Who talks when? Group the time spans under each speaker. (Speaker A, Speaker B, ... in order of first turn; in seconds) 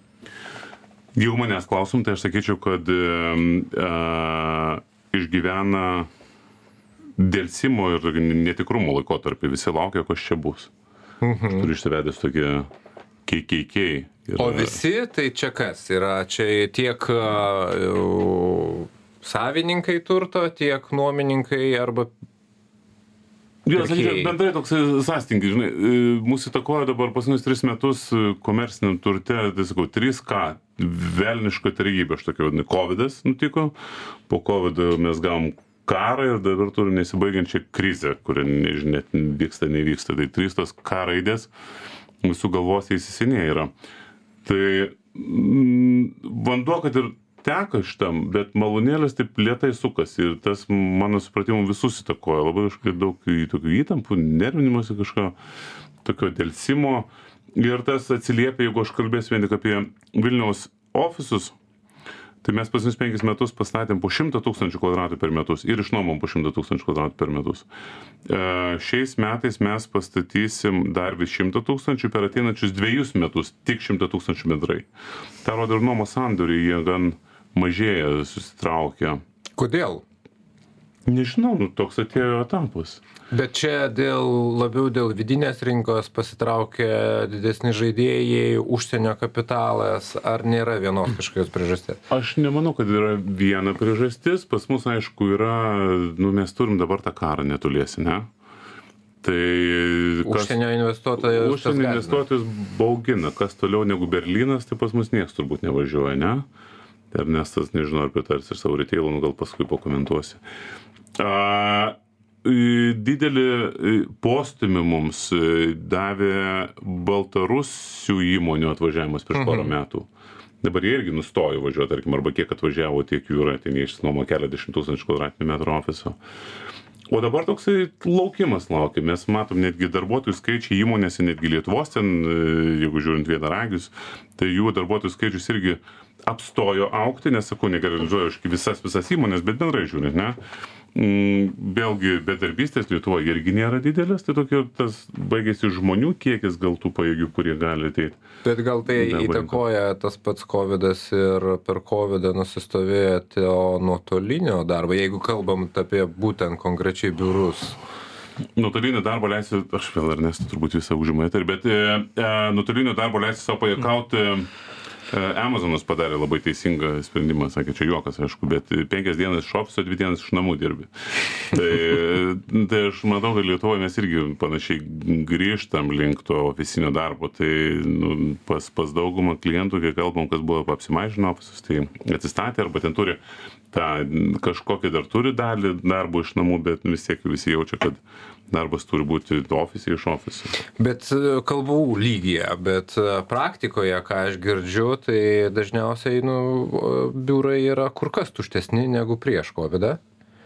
Speaker A: 1.2-6.1, 7.2-10.7, 11.5-12.7, 13.3-14.8, 23.7-33.7, 34.3-41.5, 42.2-43.7, 44.5-55.4, 56.0-61.5, 62.4-67.7, 68.3-74.9, 75.4-79.2, 81.1-83.0, 92.1-98.3, 99.2-100.6, 101.2-106.5, 107.1-110.4, 111.2-120.1, 120.6-126.2, 127.1-140.4, 140.9-148.2, 148.9-149.6, 158.6-164.5, 165.1-170.9, 171.5-183.2, 183.7-190.5
Speaker B: 11.2-11.7, 14.4-22.1, 23.8-24.3, 79.6-80.0, 83.3-92.0, 100.2-102.2, 119.3-119.7, 148.4-157.8, 190.8-200.0